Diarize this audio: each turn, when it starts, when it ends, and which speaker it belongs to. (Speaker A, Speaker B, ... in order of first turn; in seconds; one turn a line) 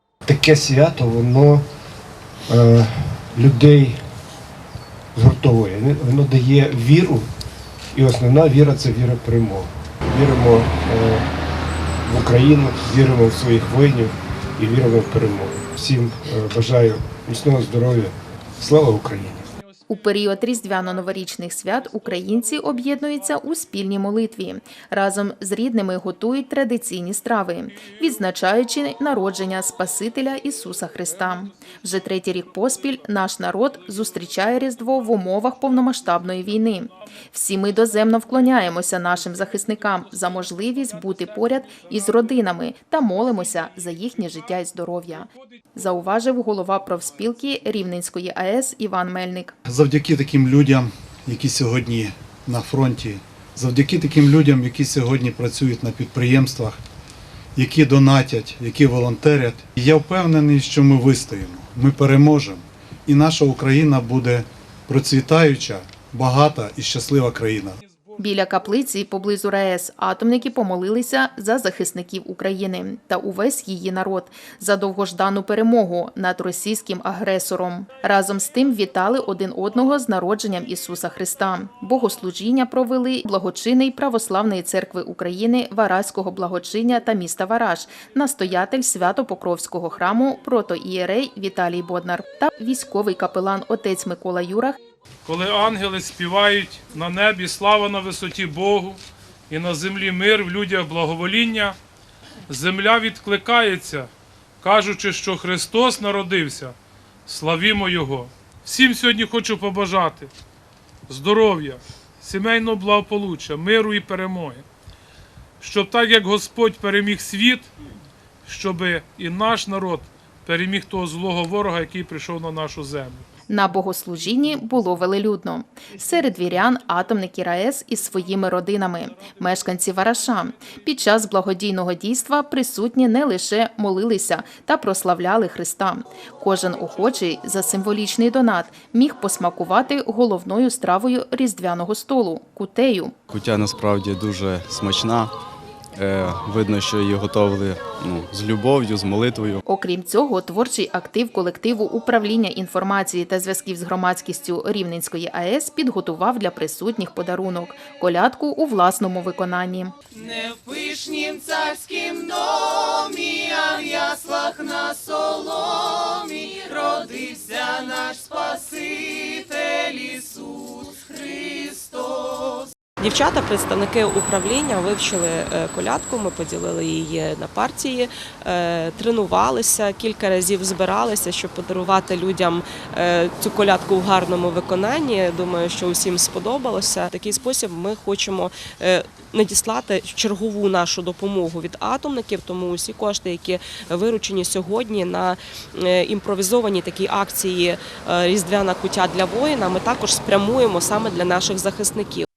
Speaker A: 0.3-1.6
Speaker A: 2.5-4.0
Speaker A: 5.2-7.3
Speaker A: 8.0-11.3
Speaker A: 12.1-19.5
Speaker B: 19.9-49.5
Speaker C: 49.7-56.8
Speaker C: 57.6-67.8
Speaker B: 68.2-94.8
Speaker D: 95.2-101.8
Speaker D: 102.5-104.1
Speaker D: 104.6-106.8
Speaker D: 107.3-110.3
Speaker D: 111.1-114.6
Speaker D: 115.6-117.7
Speaker D: 118.5-123.3
Speaker B: 123.5-143.1
Speaker E: 143.3-145.3
Speaker E: 146.0-149.6
Speaker B: 149.7-159.9
Speaker F: 160.3-168.8
Speaker F: 169.7-170.1
Speaker G: 173.0-202.3